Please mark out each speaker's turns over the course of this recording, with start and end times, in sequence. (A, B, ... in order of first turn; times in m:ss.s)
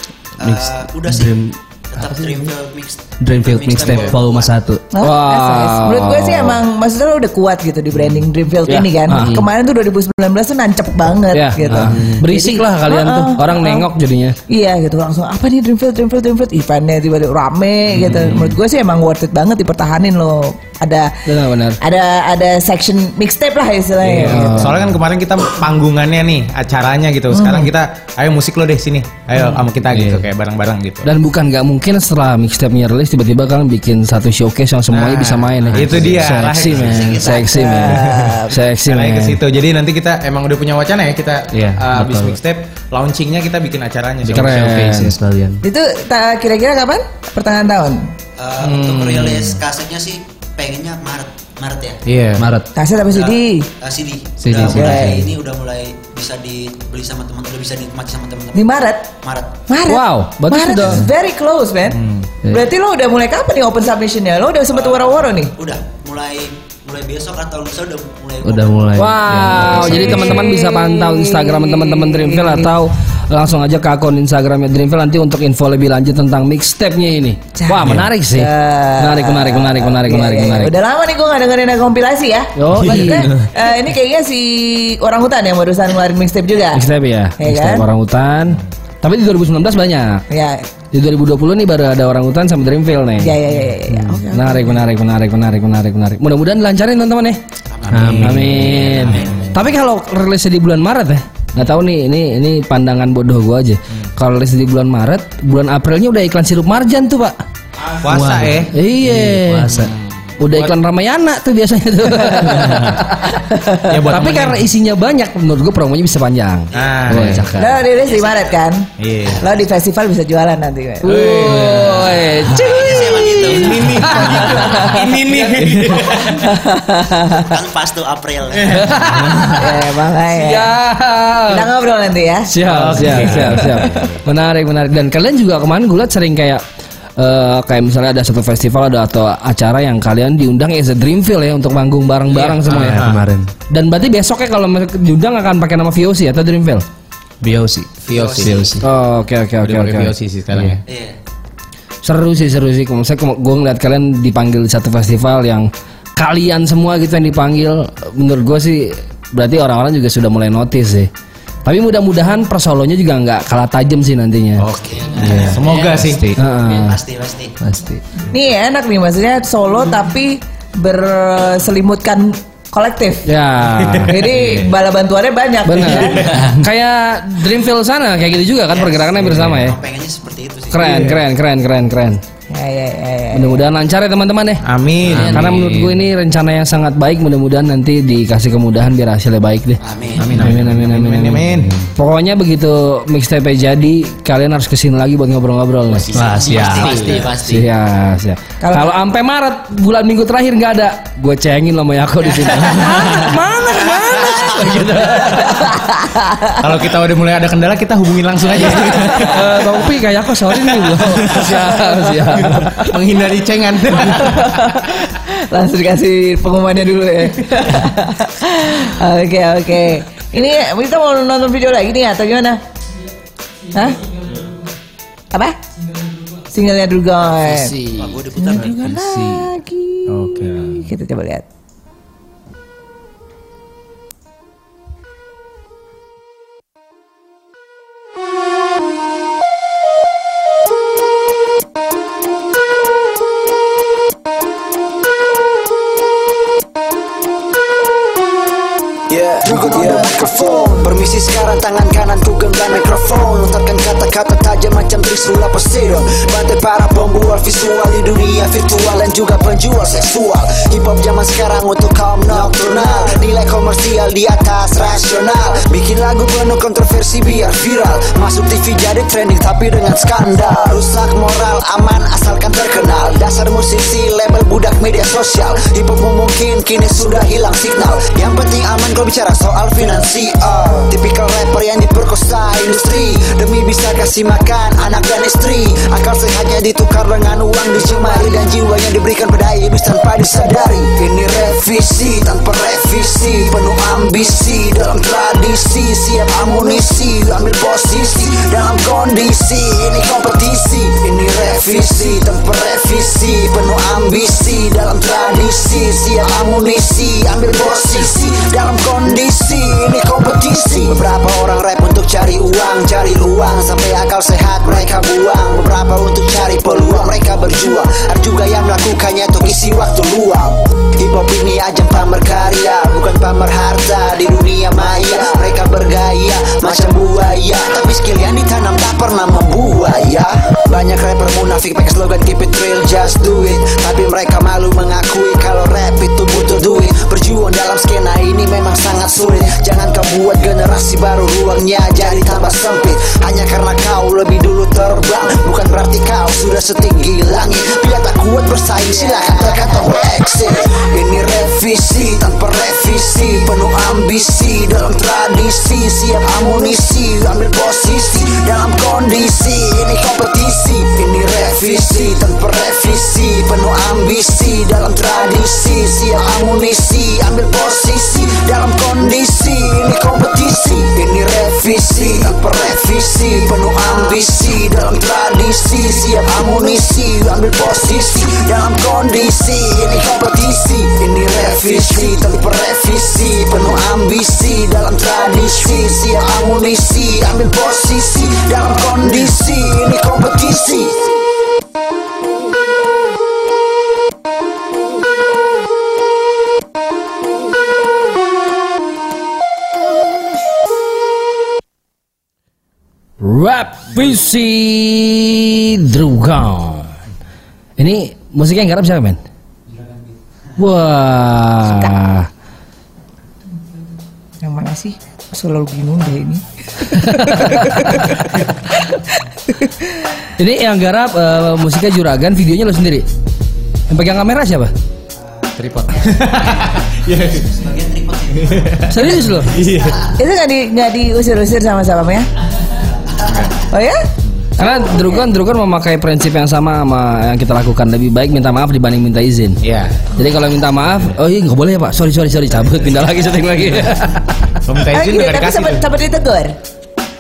0:00.4-0:01.4 A
0:00.4-0:02.5 B
0:01.9-0:04.5 A
0:03.2-0:04.8 B
0:03.8-0:04.2 C
0:04.9-0:13.9 D
0:05.0-0:06.6 E
0:08.7-0:09.5 E
0:11.3-0:14.4 E
0:11.7-0:12.2 B
0:14.5-0:21.2 D
0:18.1-0:18.4 C
0:21.3-0:21.8 E
0:21.8-0:24.8 D
0:24.1-0:24.9 E
0:24.1-0:31.1 C
0:27.3-0:27.7 D
0:29.9-0:30.3 B
0:31.0-0:39.4 E
0:34.9-0:37.2 C
0:35.7-0:36.4 B
0:36.7-0:37.6 A
0:37.2-0:38.5 D
0:38.9-0:44.7 C
0:41.5-0:42.4 B
0:44.3-0:45.6 B
0:44.3-0:45.1 E
0:45.6-0:48.1 D
0:48.4-0:52.0 A
0:48.6-0:49.6 C
0:52.1-0:52.5 C
0:52.4-0:52.7 B
0:52.8-0:53.7 D
0:53.1-0:59.6 A
0:54.4-0:55.3 B
0:54.7-0:55.2 D
0:58.6-0:59.1 D
0:59.7-1:05.5 D
0:59.9-1:01.1 E
1:01.9-1:02.3 C
1:04.7-1:09.1 A
1:08.4-1:10.4 B
1:09.0-1:20.7 E
1:09.9-1:12.7 D
1:17.6-1:26.8 D
1:22.6-1:23.3 E
1:23.0-1:23.4 B
1:26.7-1:30.2 E
1:27.4-1:27.9 D
1:30.3-1:30.7 D
1:30.9-1:33.4 E
1:33.2-1:34.8 D
1:33.9-1:34.2 B
1:34.3-1:37.4 E
1:37.7-1:39.6 A
1:37.9-1:38.8 B
1:38.0-1:39.2 C
1:38.2-1:47.4 E
1:47.9-1:48.7 C
1:48.0-1:49.9 B
1:48.7-1:49.8 E
1:49.8-1:50.7 C
1:50.4-1:53.4 E
1:53.4-1:53.9 D
1:53.8-1:54.6 C
1:54.0-1:57.8 E
1:56.7-1:58.6 A
1:56.7-1:57.5 C
1:57.1-1:57.4 B
1:57.6-2:01.3 D
1:59.0-1:59.4 C
1:59.2-1:59.7 A
2:01.0-2:05.7 E
2:01.1-2:02.2 C
2:02.5-2:04.2 A
2:03.4-2:06.5 C
2:04.5-2:05.0 D
2:06.3-2:07.5 D
2:07.4-2:09.1 A
2:08.7-2:09.7 E
2:09.5-2:10.7 D
2:10.2-2:11.7 E
2:11.5-2:12.5 D
2:12.5-2:16.6 E
2:12.6-2:14.2 C
2:17.2-2:23.0 E
2:22.4-2:23.2 C
2:22.7-2:23.5 B
2:23.7-2:26.8 E
2:27.4-2:28.8 B
2:28.0-2:28.7 C
2:28.1-2:28.8 A
2:28.8-2:30.1 E
2:29.6-2:30.8 C
2:30.5-2:30.8 B
2:30.9-2:31.2 A
2:32.0-2:41.1 E
2:41.6-2:44.7 E
2:44.6-2:46.3 C
2:44.9-2:46.1 F
2:45.2-2:46.4 B
2:45.3-2:45.5 A
2:46.4-2:47.0 E
2:46.6-2:47.5 A
2:47.6-2:48.0 B
2:48.3-2:53.3 D
2:53.2-2:54.3 E
2:53.8-2:54.6 C
2:54.1-2:56.2 D
2:55.6-2:59.8 E
2:58.7-3:00.8 A
3:00.7-3:02.2 E
3:00.8-3:01.2 C
3:02.5-3:03.6 D
3:03.3-3:04.6 E
3:04.6-3:05.6 C
3:05.1-3:06.0 B
3:05.1-3:05.4 F
3:05.2-3:16.1 E
3:09.8-3:10.4 A
3:10.2-3:11.8 C
3:10.2-3:10.6 B
3:11.5-3:11.9 B
3:16.1-3:17.3 A
3:16.1-3:17.2 B
3:16.3-3:17.7 F
3:17.4-3:25.8 E
3:18.6-3:18.9 D
3:25.4-3:26.6 D
3:26.6-3:29.6 C
3:28.9-3:33.0 E
3:30.9-3:34.8 C
3:34.2-3:42.6 D
3:43.7-3:44.0 D
3:45.3-3:45.6 D
3:46.5-3:47.7 D
3:47.4-3:49.0 F
3:48.0-3:48.9 A
3:48.4-3:51.4 D
3:50.1-3:50.9 C
4:09.1-5:18.4 G
4:38.9-4:39.6 A
5:11.4-5:12.3 A
5:13.6-5:14.8 A
5:15.8-5:17.4 A
5:18.3-5:19.5 A
5:19.4-5:27.9 G
5:21.5-5:21.9 A
5:24.2-5:29.4 A
5:29.0-6:31.0 G
5:36.8-5:37.0 A
5:41.9-5:42.7 A
5:48.8-5:49.8 A
6:43.2-6:47.0 E
6:47.8-6:49.2 E
6:50.6-6:52.3 E
6:54.4-6:59.9 D
6:57.0-6:58.1 E
7:00.4-7:03.1 E
7:03.9-7:04.7 E
7:05.6-7:07.5 C
7:05.9-7:08.9 A
7:08.4-7:10.1 C
7:08.9-7:09.6 E
7:09.5-7:09.9 A
7:10.1-7:12.3 D
7:13.2-7:13.6 C
7:13.7-7:14.1 D
7:14.6-7:19.6 E
7:14.6-7:15.2 D
7:19.6-7:20.1 C
7:20.1-7:24.6 E
7:24.6-7:25.8 C
7:24.9-7:26.6 D